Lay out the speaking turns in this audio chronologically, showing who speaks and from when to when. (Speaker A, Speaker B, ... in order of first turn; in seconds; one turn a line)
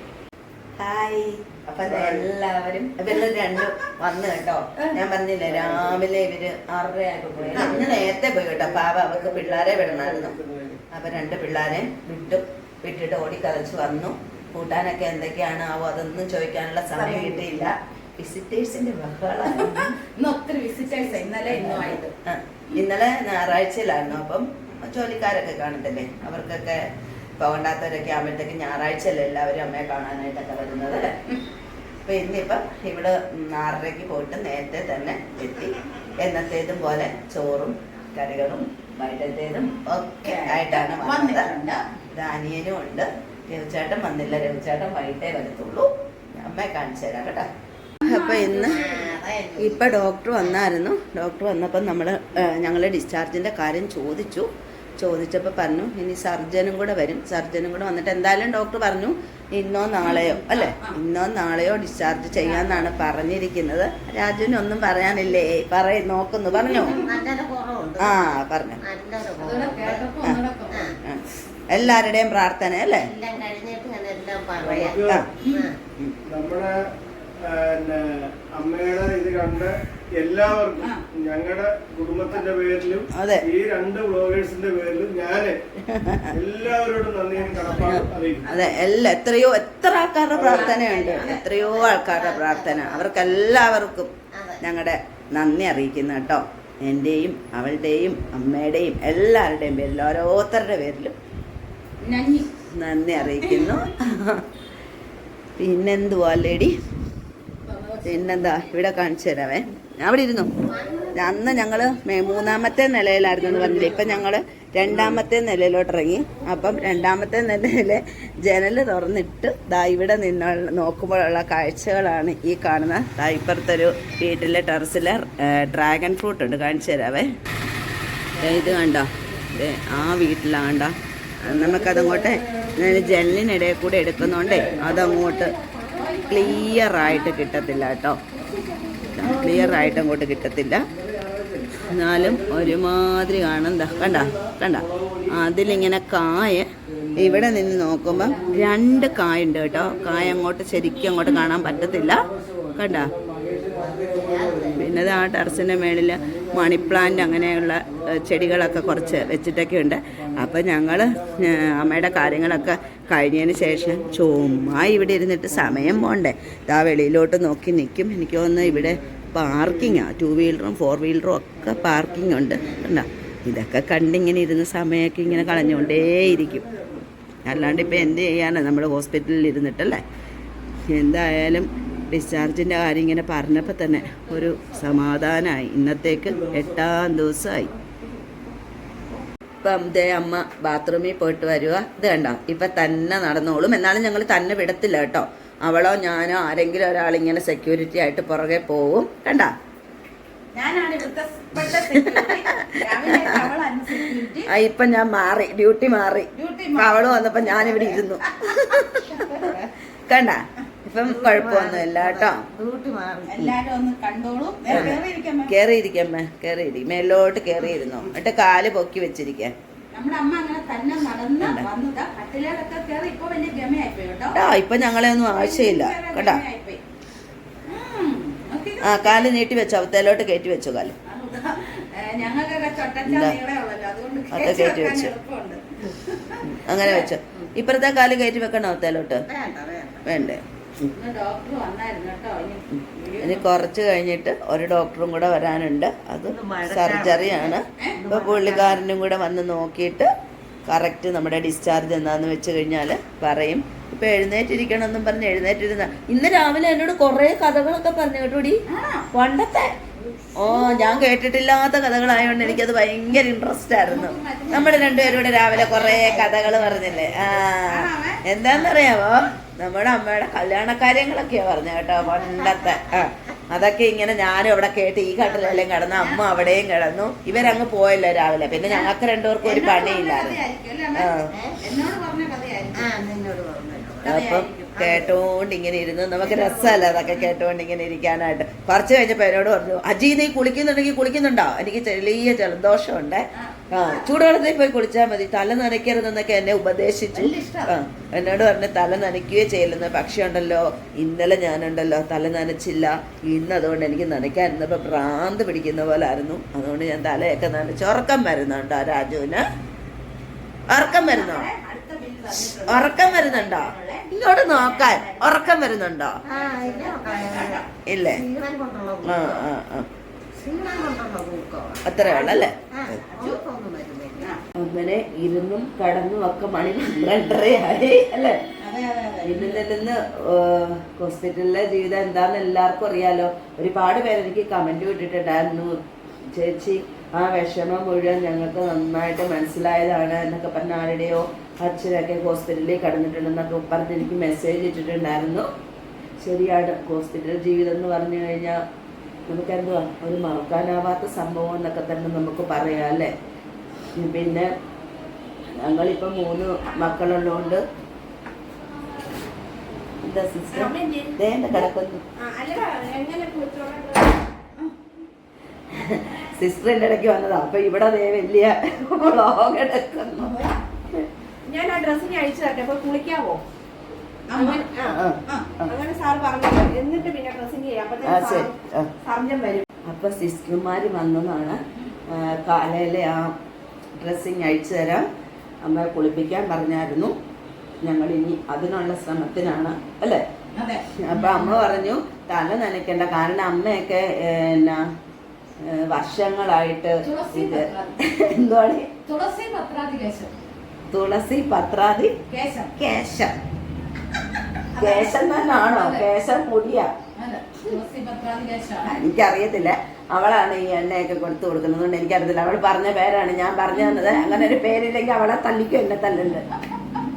Speaker A: 0.8-10.3
Speaker B: 1.8-2.3
Speaker B: 5.4-6.0
Speaker B: 7.3-10.8
Speaker A: 10.9-19.9
Speaker C: 17.0-17.4
Speaker C: 19.4-22.1
Speaker A: 21.5-31.2
Speaker A: 32.0-41.6
Speaker C: 40.2-41.8
Speaker A: 42.1-47.5
Speaker C: 48.0-49.2
Speaker A: 48.0-48.8
Speaker D: 48.6-50.6
Speaker A: 49.6-67.0
Speaker C: 60.0-61.0
Speaker C: 62.4-62.9
Speaker D: 66.7-70.1
Speaker C: 66.8-67.1
Speaker A: 68.0-68.8
Speaker C: 69.4-70.9
Speaker A: 71.0-73.1
Speaker D: 73.0-75.8
Speaker B: 74.6-75.3
Speaker C: 75.4-75.7
Speaker B: 76.2-76.7
Speaker B: 77.4-85.6
Speaker A: 83.1-83.4
Speaker A: 85.9-86.3
Speaker B: 86.3-88.7
Speaker D: 87.3-88.0
Speaker A: 87.8-101.1
Speaker B: 90.3-90.7
Speaker D: 90.4-93.4
Speaker C: 90.5-91.4
Speaker D: 94.3-94.6
Speaker C: 102.0-102.5
Speaker A: 102.8-104.4
Speaker C: 103.3-103.8
Speaker A: 105.6-106.7
Speaker C: 107.6-108.6
Speaker A: 108.0-110.5
Speaker D: 110.7-111.7
Speaker A: 111.1-127.3
Speaker D: 113.5-114.2
Speaker A: 128.4-135.6
Speaker B: 131.4-133.2
Speaker B: 134.2-135.1
Speaker D: 134.7-136.9
Speaker C: 135.9-137.6
Speaker A: 136.3-138.2
Speaker D: 138.3-139.2
Speaker A: 139.1-140.8
Speaker B: 139.2-140.0
Speaker B: 140.9-142.8
Speaker A: 141.9-153.1
Speaker B: 143.8-145.4
Speaker B: 146.9-149.1
Speaker C: 148.1-148.7
Speaker B: 149.6-150.4
Speaker B: 151.3-159.3
Speaker D: 153.7-154.9
Speaker A: 154.8-176.6
Speaker B: 160.2-162.7
Speaker B: 163.4-166.1
Speaker B: 168.6-170.0
Speaker B: 171.6-172.8
Speaker B: 175.2-178.1
Speaker A: 177.4-180.0
Speaker A: 180.9-187.7
Speaker C: 183.8-185.1
Speaker B: 186.2-186.8
Speaker A: 189.6-199.5
Speaker C: 200.5-204.5
Speaker A: 201.6-203.4
Speaker A: 204.1-209.5
Speaker C: 206.3-209.7
Speaker A: 210.1-212.4
Speaker D: 211.0-213.3
Speaker C: 213.3-215.5
Speaker A: 214.7-219.5
Speaker D: 214.7-214.9
Speaker C: 219.9-224.4
Speaker A: 221.4-221.7
Speaker A: 224.3-226.4
Speaker C: 225.3-226.8
Speaker C: 227.7-229.3
Speaker A: 228.8-230.9
Speaker C: 231.1-237.1
Speaker A: 233.0-233.4
Speaker A: 234.3-235.1
Speaker A: 236.5-239.2
Speaker D: 239.3-240.2
Speaker A: 240.1-240.9
Speaker C: 240.9-243.6
Speaker A: 243.2-250.1
Speaker D: 246.3-248.8
Speaker A: 250.7-258.6
Speaker C: 258.7-259.1
Speaker A: 259.1-259.7
Speaker A: 260.4-280.4
Speaker C: 263.8-268.8
Speaker D: 265.5-267.2
Speaker D: 272.0-273.1
Speaker D: 275.2-275.8
Speaker C: 275.9-276.6
Speaker C: 278.6-282.9
Speaker A: 280.9-281.3
Speaker D: 282.8-284.1
Speaker C: 284.0-284.9
Speaker A: 284.1-309.4
Speaker D: 284.8-285.2
Speaker D: 286.2-287.1
Speaker C: 293.4-294.1
Speaker C: 297.1-297.7
Speaker A: 310.7-311.5
Speaker C: 310.7-315.8
Speaker A: 312.6-316.2
Speaker D: 316.3-319.5
Speaker C: 316.3-317.7
Speaker A: 317.8-318.2
Speaker A: 319.0-319.9
Speaker D: 320.4-324.3
Speaker A: 321.8-323.4
Speaker A: 324.6-328.4
Speaker C: 328.6-329.6
Speaker A: 329.2-335.8
Speaker A: 336.3-345.5
Speaker A: 346.2-348.6
Speaker A: 349.3-353.1
Speaker A: 353.9-354.5
Speaker A: 355.5-357.6
Speaker A: 360.0-362.0
Speaker E: 360.5-361.1
Speaker E: 362.2-364.3
Speaker A: 365.7-371.1
Speaker C: 370.2-370.6
Speaker E: 371.5-373.4
Speaker C: 374.3-375.5
Speaker E: 374.4-375.0
Speaker A: 374.8-375.8
Speaker E: 375.7-379.6
Speaker A: 378.0-378.9
Speaker A: 379.9-383.3
Speaker A: 384.0-385.1
Speaker A: 385.6-387.1
Speaker A: 387.8-390.2
Speaker C: 390.6-391.6
Speaker A: 391.0-394.8
Speaker A: 395.6-398.9
Speaker C: 397.0-398.0
Speaker C: 399.1-400.3
Speaker A: 400.9-402.1
Speaker C: 402.3-402.7
Speaker A: 402.8-403.3
Speaker C: 404.8-406.1
Speaker A: 404.8-406.9
Speaker C: 407.1-408.9
Speaker A: 408.8-416.5
Speaker C: 413.7-414.6